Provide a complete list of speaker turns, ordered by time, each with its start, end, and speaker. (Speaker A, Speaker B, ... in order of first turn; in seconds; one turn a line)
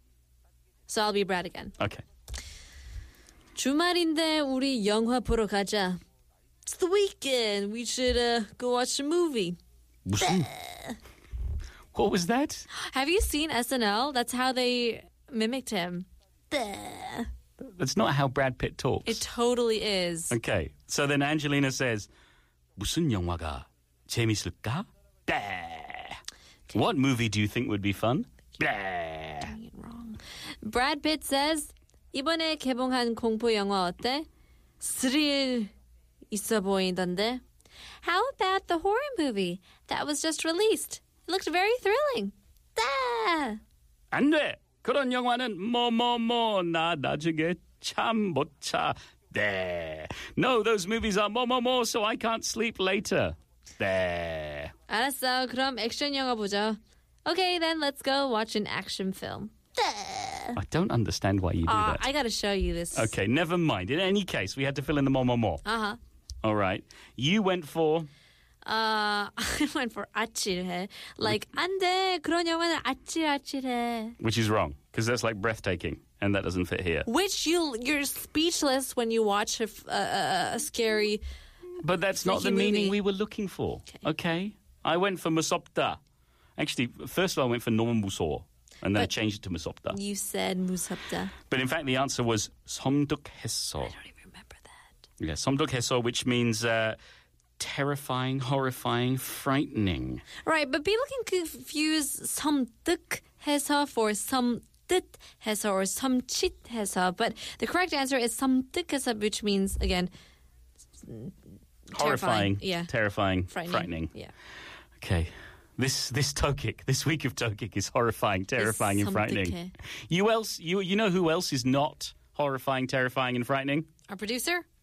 Speaker A: 0.9-1.7
Speaker A: 3.5-6.0
Speaker A: 6.7-9.6
Speaker B: 10.1-10.5
Speaker A: 10.2-11.0
Speaker B: 11.9-12.7
Speaker A: 12.8-17.3
Speaker B: 17.6-19.2
Speaker A: 19.0-20.4
Speaker B: 20.3-22.1
Speaker B: 22.8-26.2
Speaker B: 26.7-29.5
Speaker A: 29.4-34.2
Speaker A: 34.8-35.7
Speaker A: 36.3-37.4
Speaker A: 38.0-43.6
Speaker B: 44.1-54.7
Speaker A: 54.9-60.6
Speaker B: 60.5-62.0
Speaker A: 61.6-63.1
Speaker B: 62.9-65.6
Speaker A: 65.6-66.0
Speaker B: 66.4-68.1
Speaker A: 68.6-74.2
Speaker B: 74.2-77.1
Speaker A: 77.0-81.2
Speaker B: 81.8-86.0
Speaker A: 82.2-83.0
Speaker B: 86.6-90.0
Speaker A: 89.9-91.3
Speaker B: 91.5-93.9
Speaker A: 93.8-94.8
Speaker B: 95.2-97.0
Speaker B: 97.6-100.2
Speaker A: 100.4-110.1
Speaker A: 111.0-111.3
Speaker A: 111.9-112.9
Speaker B: 111.9-114.1
Speaker A: 113.5-114.3
Speaker B: 115.0-119.6
Speaker A: 118.6-119.7
Speaker B: 120.1-123.9
Speaker A: 124.1-124.6